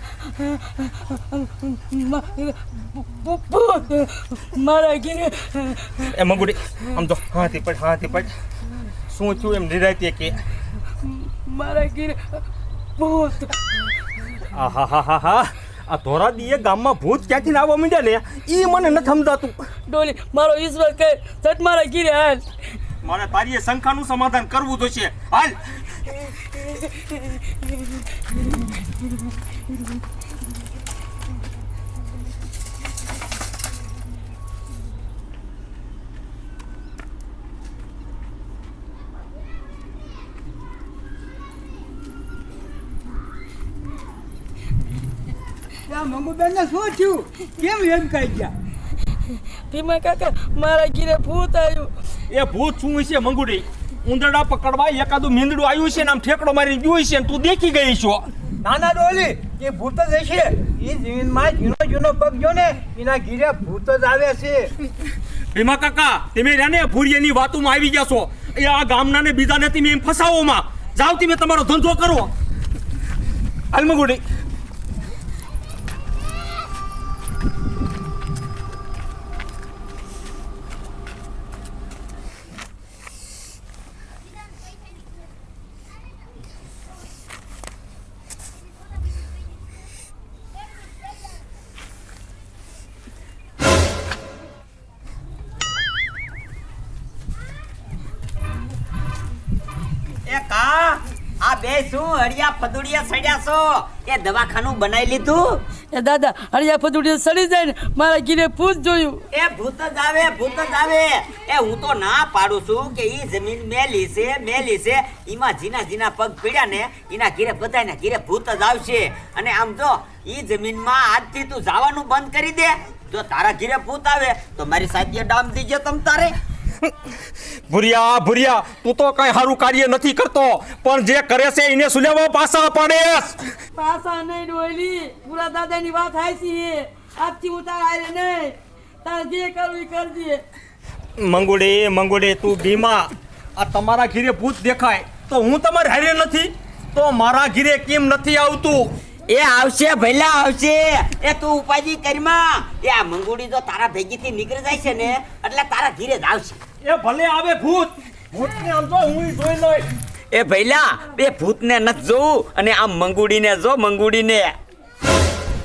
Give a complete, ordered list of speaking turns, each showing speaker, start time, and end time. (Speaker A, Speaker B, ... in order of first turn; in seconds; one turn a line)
Speaker A: 0.2-5.9
Speaker B: 6.0-8.3
Speaker B: 9.1-10.4
Speaker A: 11.0-12.4
Speaker A: 13.0-13.6
Speaker B: 14.5-19.6
Speaker A: 19.9-22.5
Speaker B: 23.0-26.2
Speaker C: 45.9-48.5
Speaker A: 49.7-51.9
Speaker B: 52.3-58.3
Speaker C: 58.6-64.7
Speaker B: 65.5-72.3
Speaker B: 73.7-74.2
Speaker D: 100.3-105.6
Speaker A: 105.9-109.2
Speaker D: 109.3-126.4
Speaker B: 127.7-133.5
Speaker A: 133.7-140.4
Speaker B: 141.2-148.9
Speaker D: 149.3-156.6
Speaker B: 156.8-159.9
Speaker D: 160.3-164.6